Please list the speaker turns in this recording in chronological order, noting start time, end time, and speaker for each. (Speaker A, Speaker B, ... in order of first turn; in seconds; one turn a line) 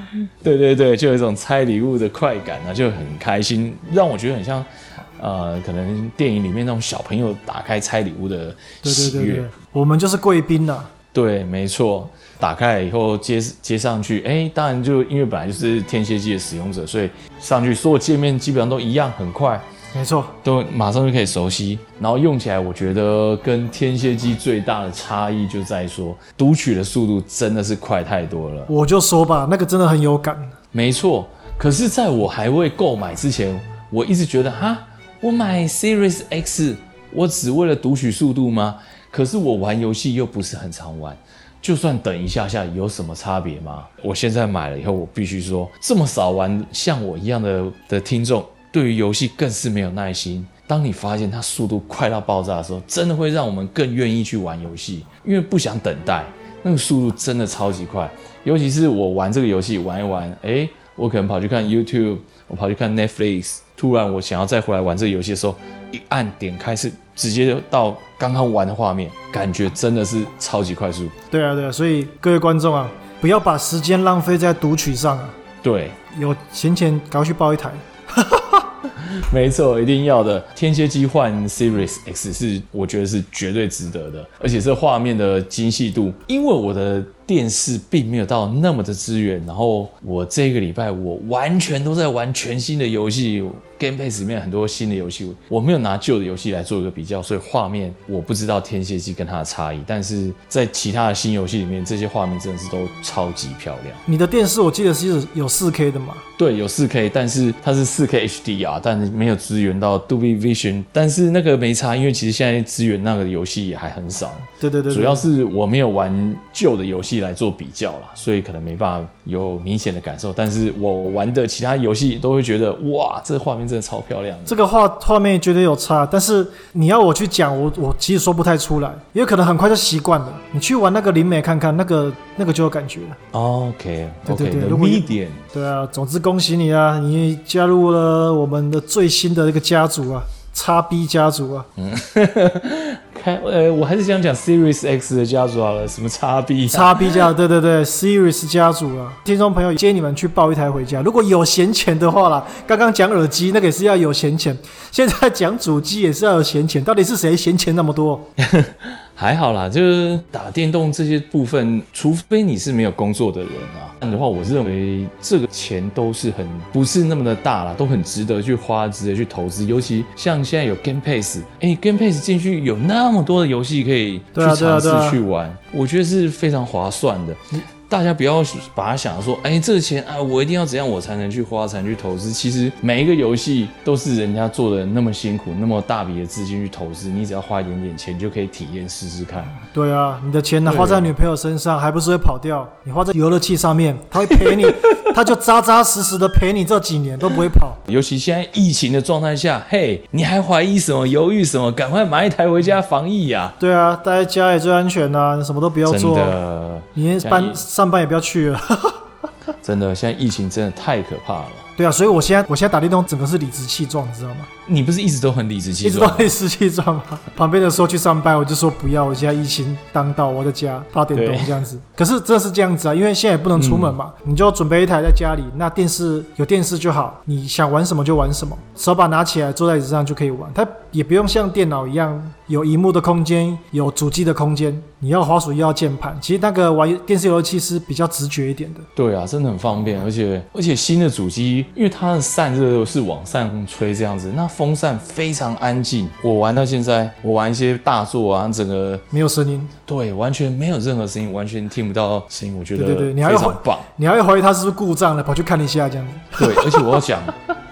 Speaker A: 0.4-9.5
Speaker B: 8.8-10.9
Speaker A: 11.1-19.6
Speaker B: 19.9-20.4
Speaker A: 20.4-28.7
Speaker B: 28.7-30.5
Speaker A: 30.7-71.1
Speaker B: 71.3-75.3
Speaker A: 75.6-76.0
Speaker B: 76.1-78.7
Speaker A: 79.0-104.0
Speaker B: 104.0-106.2
Speaker A: 106.4-124.6
Speaker B: 114.6-115.2
Speaker B: 124.5-133.2
Speaker A: 133.3-135.4
Speaker B: 134.2-141.7
Speaker A: 141.8-147.3
Speaker B: 146.7-158.3
Speaker A: 158.4-189.6
Speaker B: 174.3-175.2
Speaker B: 189.6-197.8
Speaker A: 190.6-191.1
Speaker A: 194.2-195.0
Speaker A: 197.8-203.6
Speaker B: 203.6-206.4
Speaker A: 205.8-207.6
Speaker B: 206.9-209.0
Speaker A: 209.6-211.7
Speaker B: 211.8-214.5
Speaker A: 214.7-216.3
Speaker B: 215.8-238.9
Speaker A: 221.1-221.6
Speaker A: 223.5-223.9
Speaker A: 238.9-249.0
Speaker B: 249.1-249.7
Speaker A: 249.9-253.8
Speaker B: 252.8-257.0
Speaker A: 256.4-257.3